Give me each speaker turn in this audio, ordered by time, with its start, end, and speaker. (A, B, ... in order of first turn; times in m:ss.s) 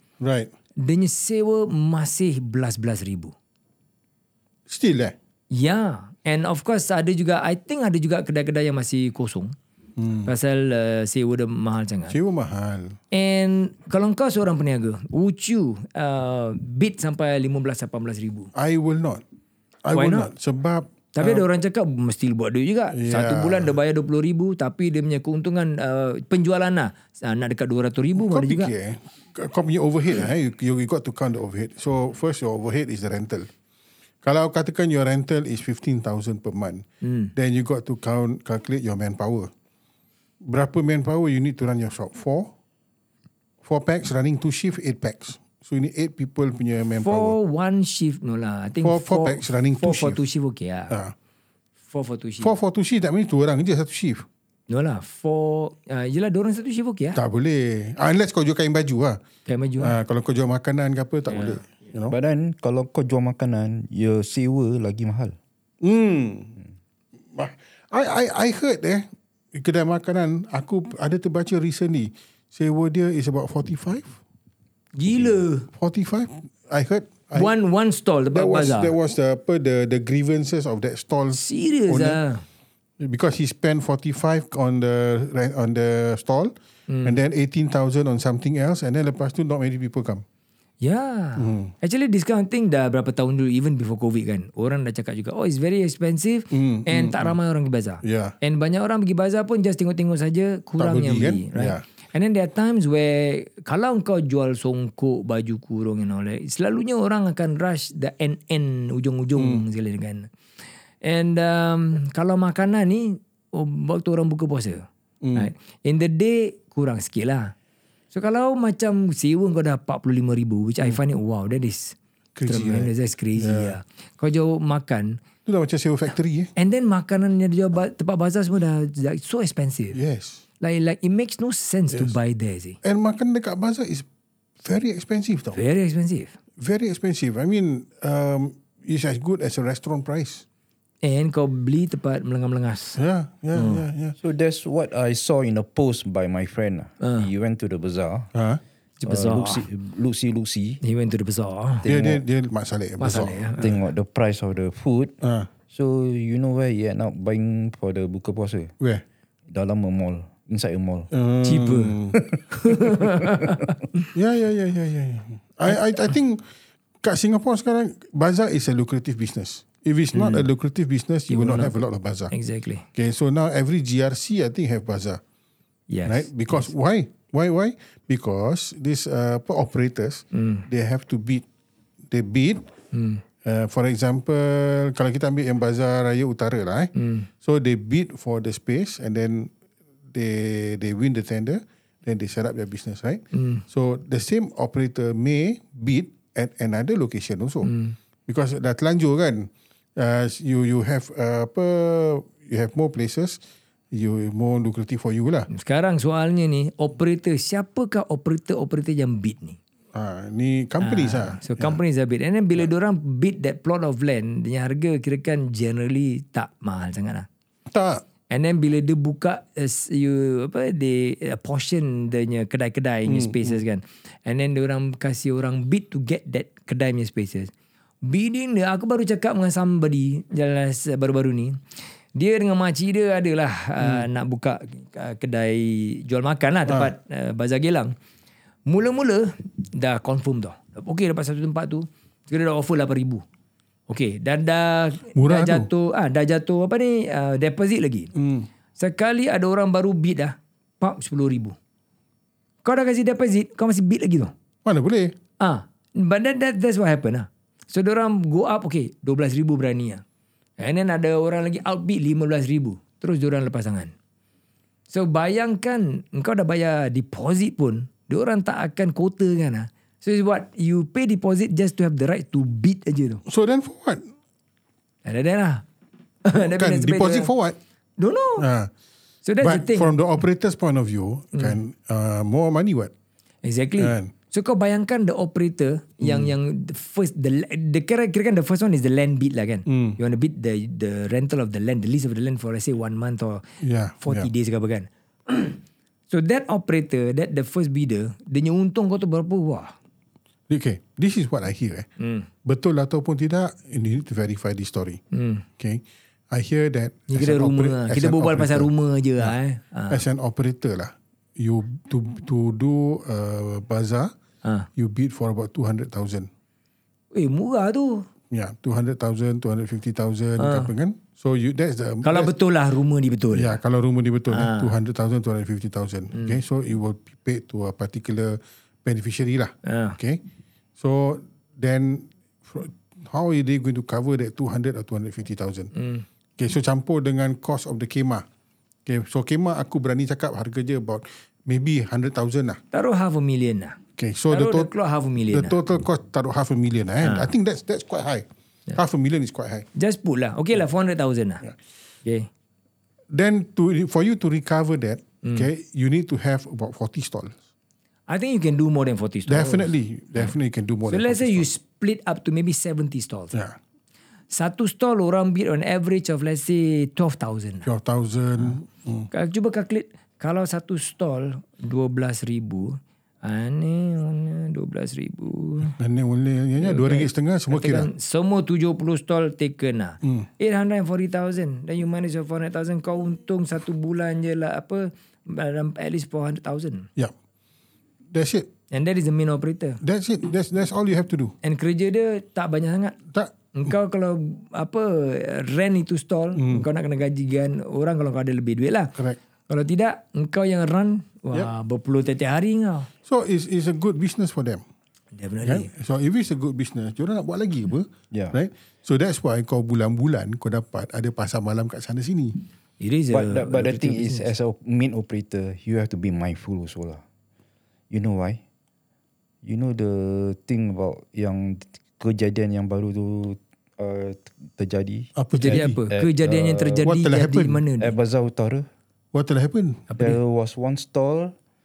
0:00.2-0:00.5 A
0:00.8-0:03.3 B
0:04.7-0:05.2 A
0:05.5-0:09.5 B
0:10.0-0:10.3 A
0:10.3-0:12.2 B
0:12.1-0:13.0 A
0:13.1-0:18.5 B
0:18.6-0:19.2 A
0:19.8-0:21.4 A
0:19.9-0:20.3 B
0:21.2-0:28.7 B
0:22.9-0:23.8 A
0:28.2-0:33.5 A
0:34.2-0:36.8 A
0:37.0-0:37.3 B
0:37.4-0:39.5 A
0:40.4-0:42.5 A
0:43.6-0:47.4 A
0:47.0-0:50.9 B
0:48.8-0:50.2 A
0:51.9-0:52.5 B
0:52.4-0:54.3 A
0:54.7-0:57.2 B
0:57.2-0:59.2 A
0:59.5-0:59.9 B
0:59.8-1:02.2 A
1:01.3-1:01.6 B
1:02.1-1:05.4 C
1:05.8-1:06.6 A
1:07.4-1:14.2 A
1:15.0-1:15.7 B
1:15.7-1:17.5 A
1:17.4-1:18.9 B
1:18.3-1:22.2 A
1:21.3-1:22.4 B
1:23.0-1:26.5 A
1:26.9-1:27.2 B
1:27.0-1:30.2 A
1:30.8-1:50.3 B
1:31.4-1:31.7 A
1:36.5-1:37.4 A
1:38.0-1:38.4 A
1:40.8-1:41.8 A
1:49.4-1:49.6 A
1:51.0-1:57.5 B
1:55.2-1:55.5 A
1:58.1-2:05.2 B
2:02.4-2:03.8 A
2:05.5-2:06.5 A
2:06.6-2:10.0 B
2:09.9-2:10.4 A
2:10.6-2:12.8 B
2:12.8-2:14.1 A
2:14.6-2:15.6 A
2:15.5-2:16.3 B
2:16.6-2:20.4 A
2:21.0-2:23.0 B
2:23.0-2:24.2 A
2:23.6-2:23.8 B
2:24.2-2:28.3 C
2:27.0-2:27.3 B
2:28.3-2:28.6 A
2:29.0-2:29.6 B
2:29.1-2:30.8 C
2:30.8-2:31.9 B
2:31.8-2:32.2 C
2:31.9-2:33.5 A
2:33.0-2:33.7 B
2:33.6-2:35.2 C
2:35.2-2:35.5 A
2:35.7-2:38.7 C
2:39.5-2:41.1 C
2:41.1-2:42.2 A
2:41.4-2:42.0 B
2:42.5-2:44.1 B
2:44.1-2:46.4 A
2:47.0-2:52.3 A
2:50.1-2:50.5 B
2:51.3-2:51.7 B
2:52.3-2:52.8 B
2:53.0-2:55.2 A
2:55.9-2:56.7 B
2:56.1-3:01.4 A
3:00.3-3:00.6 B
3:02.1-3:02.6 A
3:02.9-3:03.2 B
3:03.4-3:09.5 A
3:07.0-3:07.3 B
3:10.1-3:17.7 A
3:13.3-3:13.6 B
3:17.6-3:18.0 B
3:18.3-3:23.4 A
3:23.9-3:25.5 A
3:25.5-3:29.6 B
3:29.9-3:31.8 A
3:30.8-3:37.3 B
3:37.7-3:38.0 A
3:38.3-3:47.5 B
3:43.1-3:43.6 A
3:48.0-3:51.6 B
3:52.2-3:57.9 B
3:53.8-3:54.1 A
3:58.7-4:03.2 B
4:03.9-4:08.1 B
4:05.2-4:05.7 A
4:08.2-4:08.5 A
4:08.8-4:11.6 B
4:12.6-4:14.3 B
4:14.6-4:15.1 A
4:15.4-4:20.0 B
4:20.6-4:23.9 B
4:24.9-4:33.2 B
4:33.3-4:34.0 A
4:35.0-4:35.6 B
4:36.2-4:37.3 B
4:36.5-4:37.6 A
4:38.0-4:38.5 B
4:38.4-4:38.7 A
4:39.2-4:39.9 B
4:39.4-4:42.9 A
4:43.4-4:53.4 B
4:43.8-4:44.1 A
4:46.0-4:46.3 A
4:49.7-4:50.0 A
4:53.6-4:54.3 A
4:54.0-4:55.6 B
4:56.1-4:59.7 B
5:00.5-5:01.9 A
5:02.0-5:02.3 B
5:02.4-5:05.0 A
5:05.1-5:05.4 B
5:05.6-5:09.4 A
5:07.1-5:10.0 B
5:09.9-5:14.1 A
5:14.8-5:16.3 A
5:17.1-5:18.1 B
5:18.3-5:22.3 A
5:20.4-5:20.7 B
5:22.0-5:23.6 B
5:23.3-5:30.2 A
5:24.3-5:24.7 B
5:29.6-5:30.0 B
5:30.8-5:35.7 A
5:35.8-5:36.0 B
5:36.4-5:38.2 A
5:38.9-5:42.6 A
5:42.7-5:43.8 B
5:44.0-5:44.7 A
5:44.3-5:45.6 B
5:45.3-5:49.7 A
5:47.0-5:47.3 B
5:49.8-5:51.4 B
5:53.1-5:57.4 A
5:58.1-6:00.3 B
5:59.3-6:01.5 A
6:00.9-6:03.4 B
6:04.3-6:07.7 B
6:07.6-6:09.1 A
6:09.1-6:15.8 B
6:15.7-6:17.9 A
6:16.6-6:26.9 B
6:28.1-6:28.5 A
6:28.7-6:29.8 B
6:29.8-6:31.3 A
6:31.4-6:33.0 B
6:33.1-6:33.7 A
6:33.5-6:38.9 B
6:36.4-6:36.7 A
6:39.5-6:42.9 B
6:43.1-6:44.6 A
6:45.2-6:45.7 B
6:45.4-6:52.4 A
6:52.8-6:54.3 B
6:53.1-6:57.0 C
6:57.9-6:58.4 C
6:59.4-7:06.9 C
7:05.2-7:05.8 A
7:05.3-7:08.0 B
7:06.8-7:07.6 A
7:07.8-7:08.7 C
7:09.1-7:09.9 A
7:09.9-7:10.2 B
7:10.0-7:11.3 C